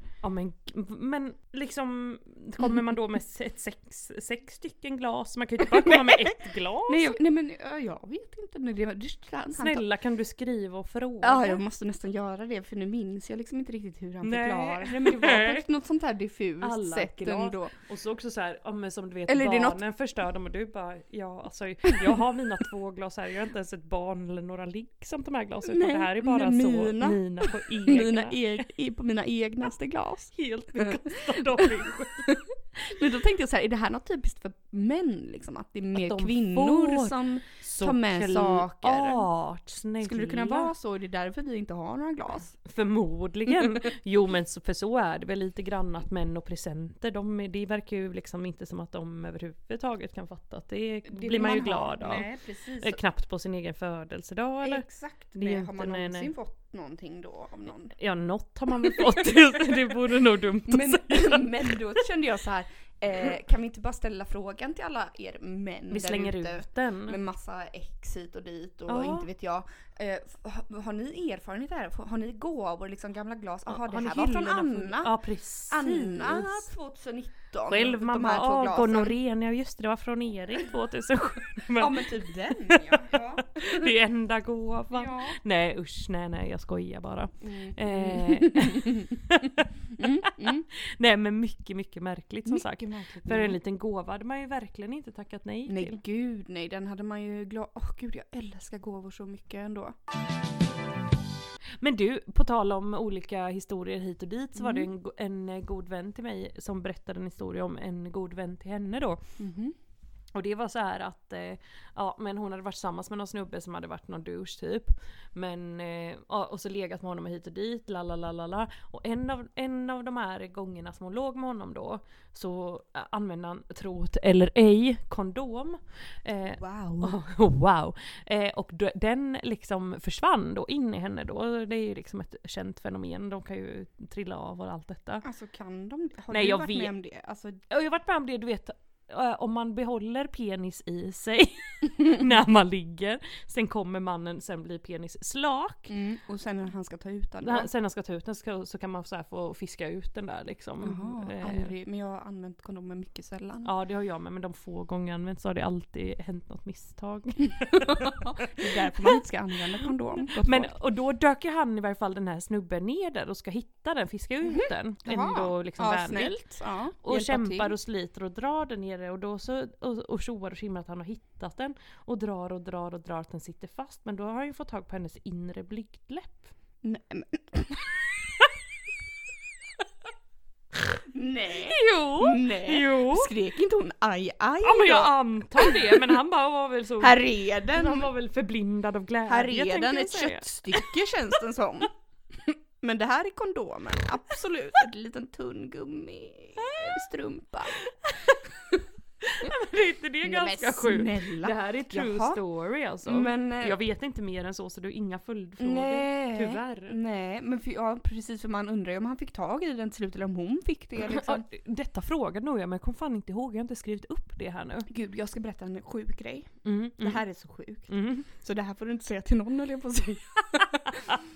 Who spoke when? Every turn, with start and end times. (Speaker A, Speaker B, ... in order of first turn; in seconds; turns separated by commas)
Speaker A: 0.2-7.2, Speaker B: 5.8-6.1, Speaker B: 6.9-9.8, Speaker A: 9.6-11.6, Speaker B: 11.2-17.7, Speaker A: 14.2-15.6, Speaker A: 16.6-28.4, Speaker B: 19.3-19.8, Speaker B: 25.6-39.2, Speaker A: 30.3-32.3, Speaker A: 35.9-40.7, Speaker B: 40.0-42.5, Speaker A: 42.6-52.3, Speaker B: 51.1-53.0, Speaker A: 52.8-56.3, Speaker B: 54.6-57.9, Speaker A: 57.9-61.8, Speaker B: 58.8-59.3, Speaker B: 60.7-79.1, Speaker A: 65.9-67.2, Speaker A: 68.9-69.3, Speaker A: 73.7-76.7, Speaker A: 77.7-96.0, Speaker B: 81.7-83.9, Speaker B: 84.9-85.4, Speaker B: 87.4-89.2, Speaker B: 90.0-90.7, Speaker B: 92.5-93.6, Speaker B: 95.7-99.9, Speaker A: 101.8-109.2, Speaker B: 104.6-104.9, Speaker B: 109.4-109.7, Speaker A: 110.3-135.2, Speaker B: 126.4-127.2, Speaker B: 135.2-137.6, Speaker A: 136.3-136.9, Speaker A: 137.7-145.9, Speaker B: 145.9-147.7, Speaker A: 147.4-151.7, Speaker B: 150.8-153.7, Speaker A: 153.6-159.2, Speaker B: 157.7-160.7, Speaker A: 160.4-166.4, Speaker B: 164.5-167.7, Speaker A: 167.0-176.5, Speaker B: 176.8-177.9, Speaker B: 181.1-186.0, Speaker A: 181.7-183.3, Speaker A: 184.6-187.2, Speaker B: 187.0-188.1, Speaker A: 187.7-190.9, Speaker B: 189.3-191.9, Speaker B: 192.4-197.8, Speaker A: 196.6-196.9, Speaker A: 197.8-198.5, Speaker A: 199.2-207.0, Speaker B: 200.2-202.4, Speaker B: 203.1-203.8, Speaker B: 205.6-211.4, Speaker A: 211.0-214.9, Speaker B: 214.9-221.2, Speaker A: 216.6-217.2, Speaker A: 217.9-218.3